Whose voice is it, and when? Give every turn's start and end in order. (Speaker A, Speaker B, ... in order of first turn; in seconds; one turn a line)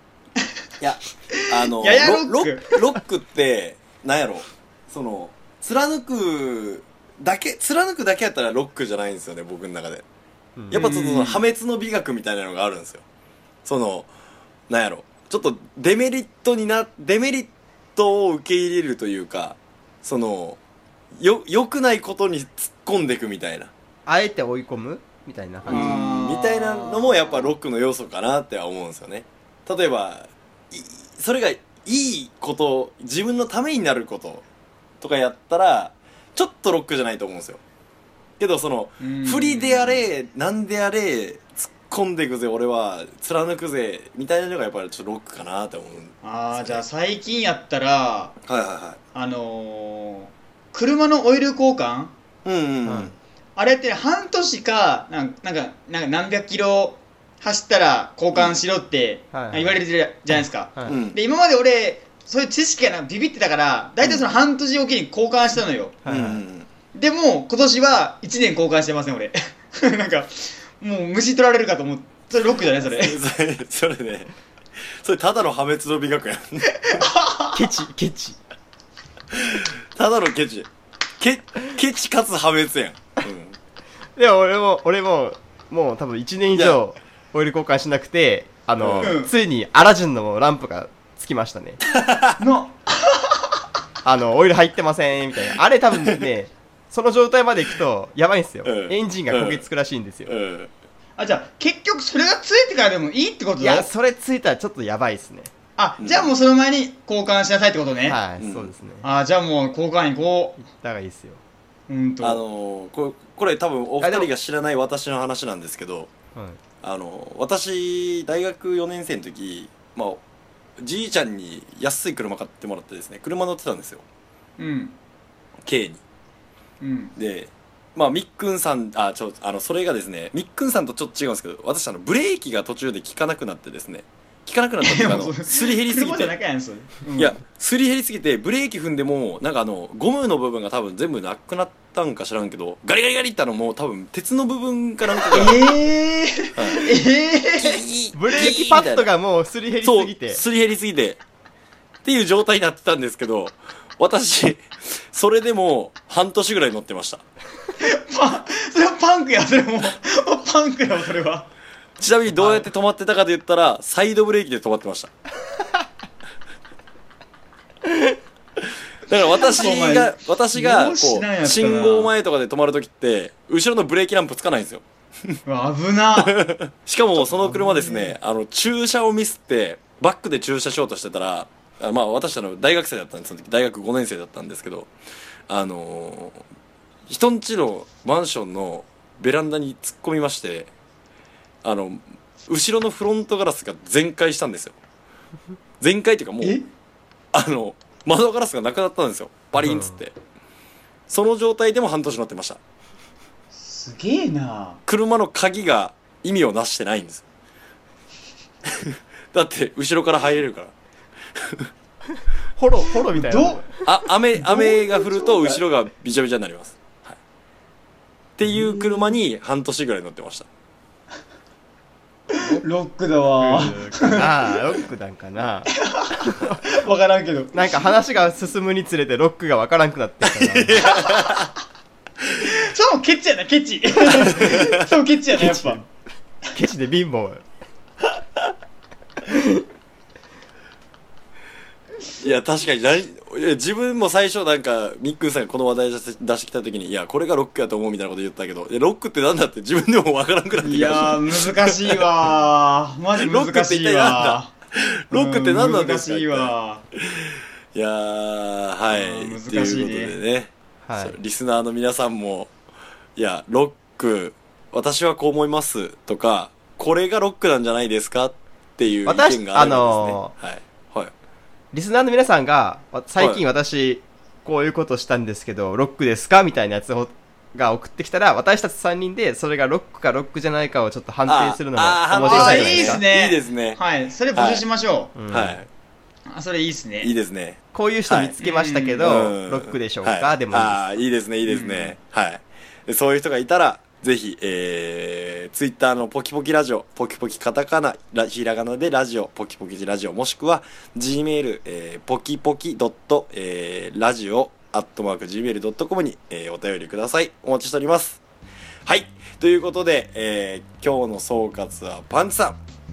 Speaker A: 0.8-10.0
Speaker B: 1.3-2.7
Speaker C: 10.6-10.9
Speaker A: 10.7-13.0
Speaker B: 10.7-11.4
Speaker A: 13.6-14.1
Speaker A: 14.7-20.6
Speaker A: 21.2-23.7
Speaker C: 24.1-26.0
Speaker B: 25.6-27.1
Speaker A: 25.6-34.4
Speaker A: 35.0-37.6
Speaker A: 38.4-46.8
Speaker B: 39.0-40.0
Speaker B: 46.2-48.3
Speaker A: 48.4-49.0
Speaker B: 49.1-52.1
Speaker A: 52.4-53.1
Speaker C: 52.8-53.1
Speaker B: 53.5-66.0
Speaker A: 58.3-58.6
Speaker C: 59.3-59.8
Speaker C: 60.3-61.0
Speaker A: 60.9-61.2
Speaker C: 66.0-66.4
Speaker A: 66.0-66.7
Speaker B: 66.9-73.2
Speaker A: 72.8-74.3
Speaker A: 75.0-76.7
Speaker B: 76.7-77.6
Speaker C: 77.5-78.4
Speaker A: 79.3-80.7
Speaker A: 81.2-83.5
Speaker C: 84.2-91.8
Speaker A: 86.5-86.8
Speaker A: 88.8-89.1
Speaker B: 89.0-89.3
Speaker A: 91.9-92.3
Speaker B: 92.4-93.5
Speaker C: 94.0-100.3
Speaker A: 98.6-99.6
Speaker A: 100.2-100.7
Speaker B: 101.2-103.9
Speaker C: 103.6-105.5
Speaker B: 105.8-108.2
Speaker A: 106.0-106.3
Speaker C: 108.0-109.1
Speaker A: 108.4-108.7
Speaker B: 109.0-110.6
Speaker C: 110.6-111.4
Speaker B: 111.9-112.4
Speaker A: 112.2-116.1
Speaker C: 114.0-114.3
Speaker C: 116.3-116.6
Speaker A: 116.8-120.2
Speaker A: 120.8-124.0
Speaker B: 124.6-125.0
Speaker A: 125.7-126.0
Speaker B: 126.8-127.1
Speaker A: 127.2-136.3
Speaker B: 134.8-137.4
Speaker A: 137.2-145.7
Speaker B: 145.2-147.8
Speaker A: 146.6-146.9
Speaker A: 147.6-149.1
Speaker C: 148.1-150.4
Speaker A: 149.8-151.2
Speaker A: 152.0-157.2
Speaker B: 157.8-161.5
Speaker A: 162.0-165.1
Speaker B: 162.4-162.7
Speaker A: 169.1-175.4
Speaker B: 169.3-172.1
Speaker B: 175.4-176.3
Speaker A: 176.2-184.9
Speaker C: 177.2-178.1
Speaker A: 185.5-186.4
Speaker A: 187.1-190.7
Speaker A: 191.6-194.7
Speaker A: 195.8-196.6
Speaker B: 196.4-196.7
Speaker A: 197.3-200.2
Speaker C: 199.6-200.0
Speaker A: 201.1-202.6
Speaker B: 203.5-204.8
Speaker A: 204.9-207.2
Speaker A: 208.8-210.7
Speaker C: 212.6-213.9
Speaker B: 213.1-213.7
Speaker A: 213.8-217.2
Speaker B: 214.4-215.5
Speaker A: 218.4-220.5
Speaker B: 222.3-224.6
Speaker C: 223.4-226.6
Speaker B: 225.7-227.7
Speaker C: 227.5-230.9
Speaker A: 230.7-231.5
Speaker B: 230.7-231.4
Speaker B: 232.4-235.8
Speaker A: 234.2-234.7
Speaker C: 235.3-235.8
Speaker C: 236.5-237.4
Speaker C: 239.2-239.6
Speaker A: 242.2-252.1
Speaker B: 250.6-254.5
Speaker A: 253.2-256.5
Speaker B: 255.1-256.8
Speaker A: 257.7-262.5
Speaker B: 258.9-260.1
Speaker C: 260.9-261.1
Speaker A: 263.2-271.1
Speaker C: 269.1-270.3
Speaker C: 271.7-283.0
Speaker A: 273.2-273.4
Speaker A: 281.2-283.8
Speaker B: 282.2-285.1
Speaker A: 284.3-284.6
Speaker C: 285.1-285.6
Speaker A: 285.3-285.6
Speaker B: 286.3-287.1
Speaker A: 287.0-288.4
Speaker C: 287.7-291.0
Speaker B: 288.4-289.0
Speaker A: 289.0-308.2
Speaker B: 291.4-291.9
Speaker A: 308.9-312.6